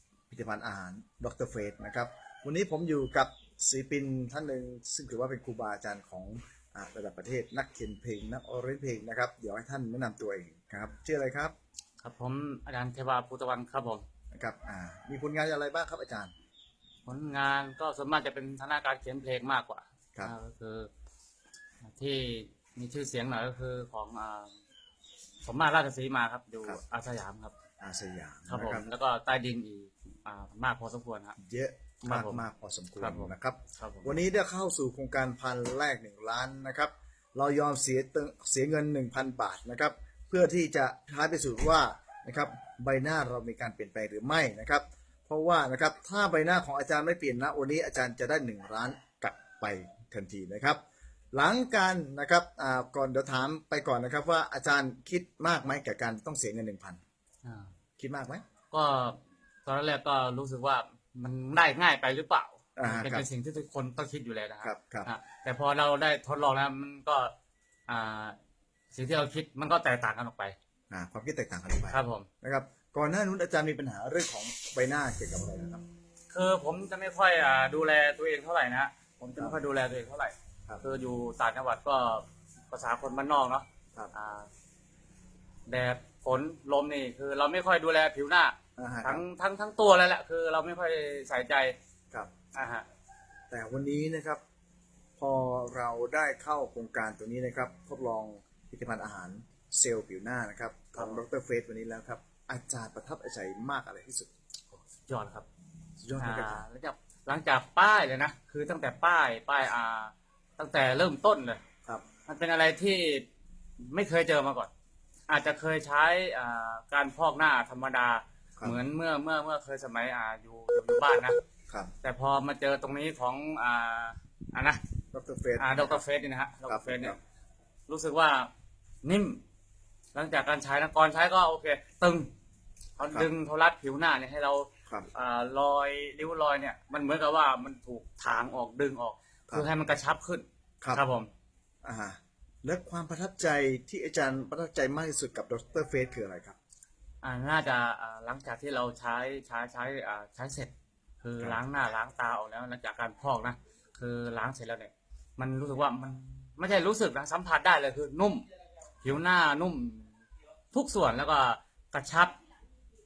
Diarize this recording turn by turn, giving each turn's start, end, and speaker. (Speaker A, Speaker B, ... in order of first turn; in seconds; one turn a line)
Speaker A: 0.3-11.5
Speaker B: 12.0-14.1
Speaker A: 14.3-16.3
Speaker B: 17.0-20.9
Speaker B: 21.8-24.5
Speaker B: 25.4-27.5
Speaker A: 27.8-28.9
Speaker B: 28.5-31.4
Speaker A: 31.4-50.8
Speaker B: 32.0-32.4
Speaker B: 33.0-34.1
Speaker A: 51.3-57.0
Speaker B: 57.4-57.7
Speaker A: 58.0-58.4
Speaker B: 58.7-67.3
Speaker A: 62.8-63.2
Speaker A: 64.6-65.1
Speaker B: 67.9-68.4
Speaker B: 68.9-70.5
Speaker A: 70.9-75.8
Speaker B: 71.9-72.3
Speaker B: 76.3-84.5
Speaker B: 85.7-91.7
Speaker A: 88.8-89.2
Speaker B: 92.5-92.8
Speaker A: 93.5-94.4
Speaker A: 95.2-104.3
Speaker B: 100.9-101.2
Speaker B: 104.9-105.5
Speaker A: 106.0-106.6
Speaker B: 106.2-111.6
Speaker B: 112.3-113.2
Speaker B: 113.8-114.7
Speaker B: 115.3-121.4
Speaker B: 122.0-124.8
Speaker A: 125.1-126.0
Speaker B: 125.6-127.2
Speaker A: 126.7-127.2
Speaker B: 127.9-128.5
Speaker B: 129.0-129.4
Speaker B: 130.1-132.3
Speaker B: 133.0-141.3
Speaker A: 141.8-146.6
Speaker B: 147.2-158.5
Speaker B: 159.0-160.1
Speaker B: 160.7-162.3